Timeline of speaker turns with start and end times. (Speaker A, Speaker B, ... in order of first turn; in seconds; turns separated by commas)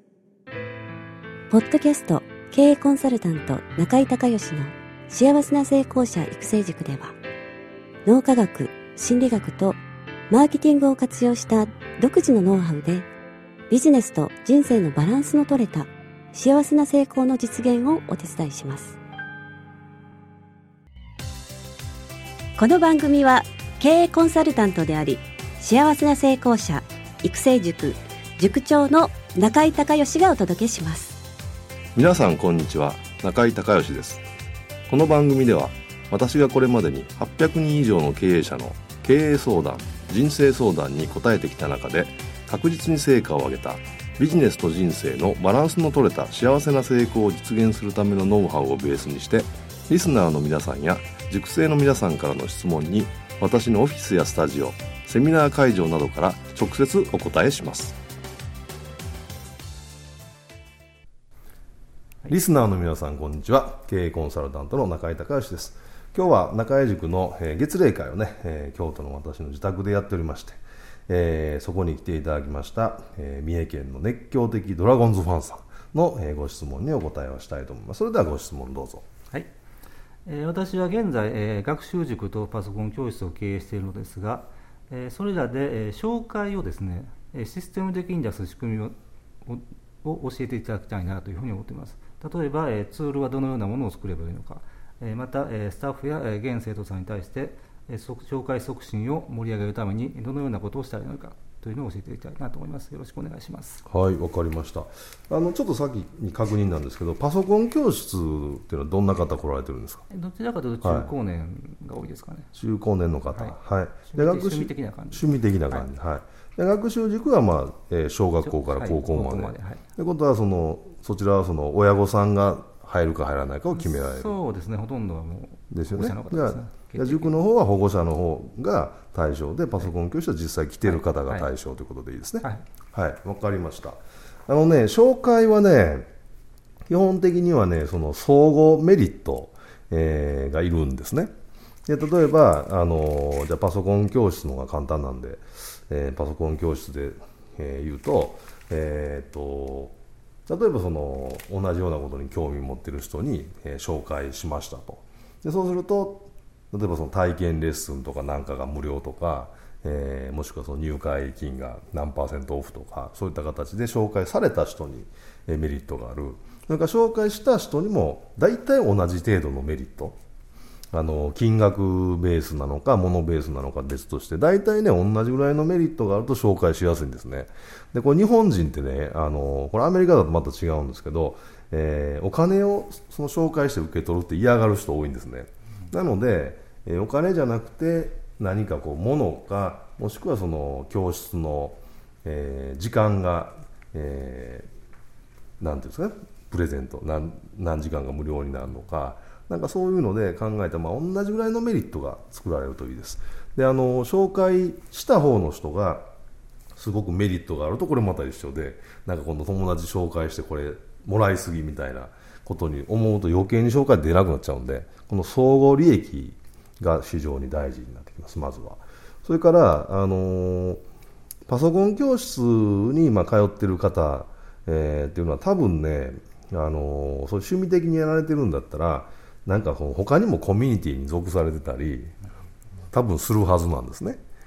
Speaker A: 1.5-7.1, Speaker A: 8.0-9.8, Speaker A: 10.3-13.1, Speaker A: 13.7-19.0, Speaker A: 22.6-31.2, Speaker B: 31.9-34.2, Speaker B: 34.9-58.0, Speaker B: 62.3-79.0, Speaker C: 80.2-103.8, Speaker B: 103.8-110.0, Speaker C: 110.1-112.5, Speaker B: 110.8-111.1, Speaker B: 112.5-124.3, Speaker C: 113.3-115.8, Speaker C: 118.5-119.8, Speaker C: 123.7-127.3, Speaker B: 125.7-136.1, Speaker C: 130.9-131.5, Speaker B: 136.9-141.3, Speaker B: 141.9-149.9, Speaker B: 150.5-170.2, Speaker B: 170.9-194.7, Speaker B: 195.6-206.1, Speaker B: 206.7-220.8, Speaker B: 221.5-232.1, Speaker B: 232.9-234.2